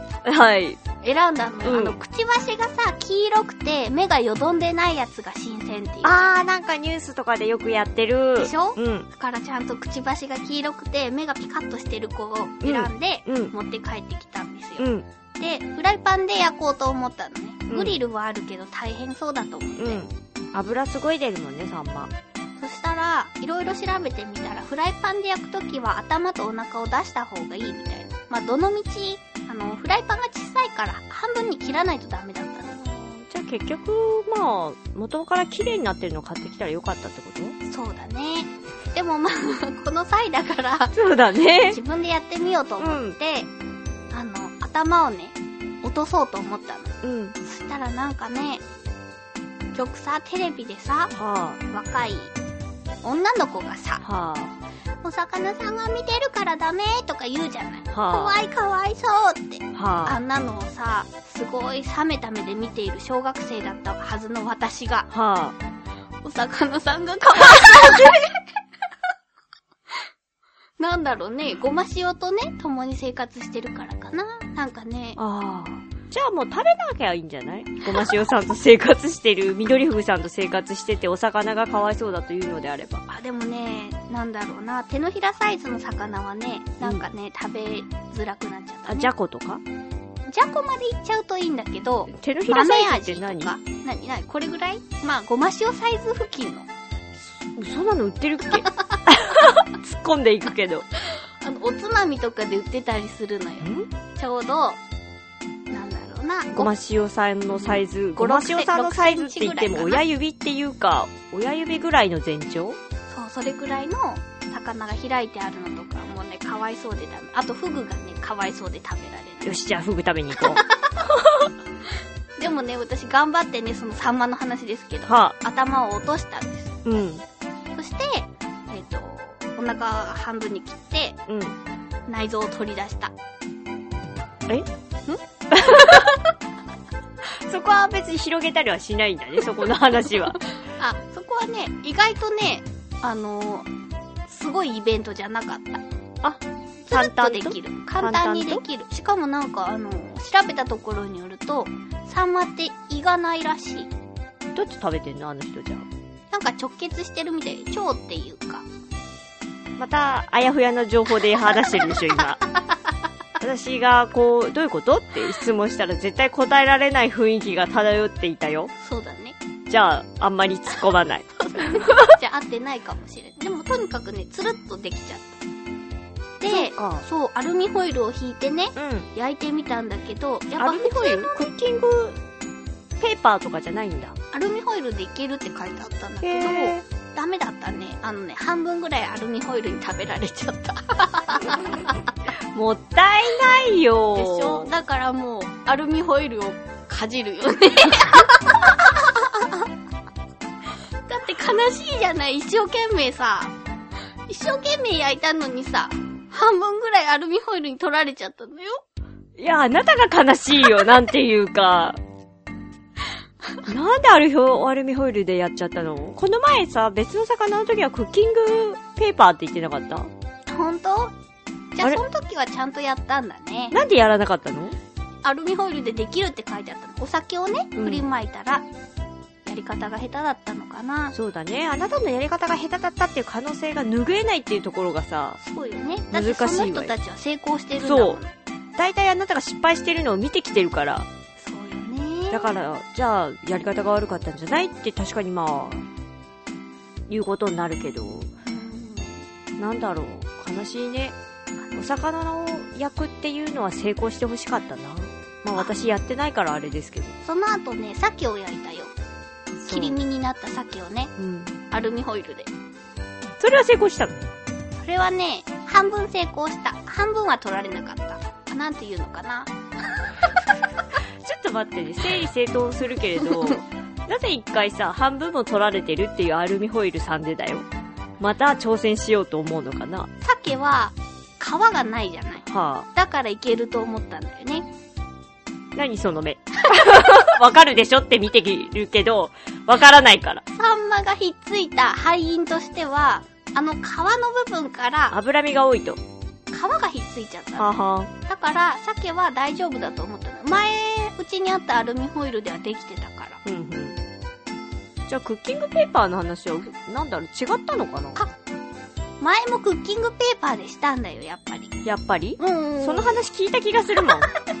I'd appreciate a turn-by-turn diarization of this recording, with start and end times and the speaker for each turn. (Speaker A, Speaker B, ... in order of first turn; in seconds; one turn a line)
Speaker A: 0.2-0.8
Speaker B: 1.0-6.3
Speaker A: 1.6-2.0
Speaker A: 6.0-9.1
Speaker B: 8.4-20.0
Speaker A: 12.6-13.5
Speaker A: 14.8-15.1
Speaker A: 17.7-18.0
Speaker A: 19.8-22.1
Speaker B: 22.6-32.8
Speaker A: 32.7-37.5
Speaker B: 37.6-41.0
Speaker A: 40.9-41.8
Speaker B: 41.7-43.5
Speaker A: 42.8-43.2
Speaker B: 44.1-48.6
Speaker A: 47.0-47.4
Speaker B: 49.7-51.1
Speaker A: 51.1-51.6
Speaker B: 51.7-52.3
Speaker B: 53.0-54.0
Speaker A: 54.0-54.5
Speaker B: 55.0-65.1
Speaker A: 57.9-58.4
Speaker A: 59.7-60.2
Speaker A: 65.1-65.5
Speaker B: 66.2-68.4
Speaker A: 67.5-68.1
Speaker B: 70.8-75.2
Speaker A: 75.2-83.0
Speaker B: 83.1-89.1
Speaker A: 88.9-89.6
Speaker B: 90.2-96.7
Speaker A: 92.1-93.5
Speaker A: 97.2-100.8
Speaker B: 101.4-104.8
Speaker A: 103.6-103.9
Speaker B: 105.7-106.7
Speaker A: 106.5-112.8
Speaker B: 107.5-110.0
Speaker B: 113.1-119.6
Speaker A: 119.4-120.6
Speaker B: 120.3-121.1
Speaker B: 122.4-126.7
Speaker A: 125.1-125.3
Speaker A: 126.8-127.2
Speaker B: 127.7-131.2
Speaker A: 131.3-131.6
Speaker B: 132.1-133.1
Speaker B: 135.1-136.2
Speaker A: 135.5-136.1
Speaker A: 137.2-140.4
Speaker B: 140.7-143.7
Speaker B: 144.2-145.8
Speaker A: 146.2-148.6
Speaker B: 146.9-153.9
Speaker A: 154.5-155.8
Speaker B: 156.3-158.7
Speaker A: 159.8-162.4
Speaker B: 162.4-162.9
Speaker A: 163.4-168.7
Speaker B: 168.8-169.4
Speaker A: 169.7-172.1
Speaker B: 171.5-175.3
Speaker B: 176.4-181.5
Speaker A: 176.5-177.0
Speaker A: 178.8-179.1
Speaker A: 180.6-182.2
Speaker A: 183.0-184.2
Speaker B: 184.3-191.9
Speaker A: 186.2-186.8
Speaker A: 192.5-194.7
Speaker B: 194.1-199.7
Speaker B: 201.1-203.5
Speaker B: 204.2-208.8
Speaker A: 209.4-212.0
Speaker A: 213.7-220.1
Speaker B: 220.5-221.1
Speaker B: 221.7-223.8
Speaker A: 223.7-224.8
Speaker B: 225.2-228.7
Speaker A: 227.8-228.1
Speaker B: 229.4-231.1
Speaker A: 231.1-235.4
Speaker B: 235.4-238.3
Speaker A: 236.1-236.9
Speaker A: 237.8-238.2
Speaker A: 238.8-241.1
Speaker B: 241.4-242.6
Speaker A: 242.3-245.8
Speaker A: 247.1-248.3
Speaker B: 248.4-249.2
Speaker A: 249.6-251.2
Speaker B: 251.6-251.9
Speaker A: 251.8-257.1
Speaker B: 257.2-258.9
Speaker A: 259.6-260.0
Speaker B: 259.7-261.1
Speaker A: 261.2-261.5
Speaker B: 261.7-262.5
Speaker A: 263.4-264.1
Speaker B: 264.7-270.3
Speaker A: 271.2-277.6
Speaker B: 273.2-273.6
Speaker A: 278.2-280.1
Speaker B: 280.2-284.7
Speaker A: 282.5-282.9
Speaker A: 285.7-290.4
Speaker B: 286.8-287.3
Speaker B: 290.5-295.1
Speaker A: 295.1-296.0
Speaker B: 296.5-297.7
Speaker A: 297.6-298.1
Speaker B: 298.3-303.4
Speaker A: 303.4-304.0
Speaker A: 305.1-308.2
Speaker B: 309.2-311.8
Speaker A: 311.8-314.3
Speaker B: 312.4-313.2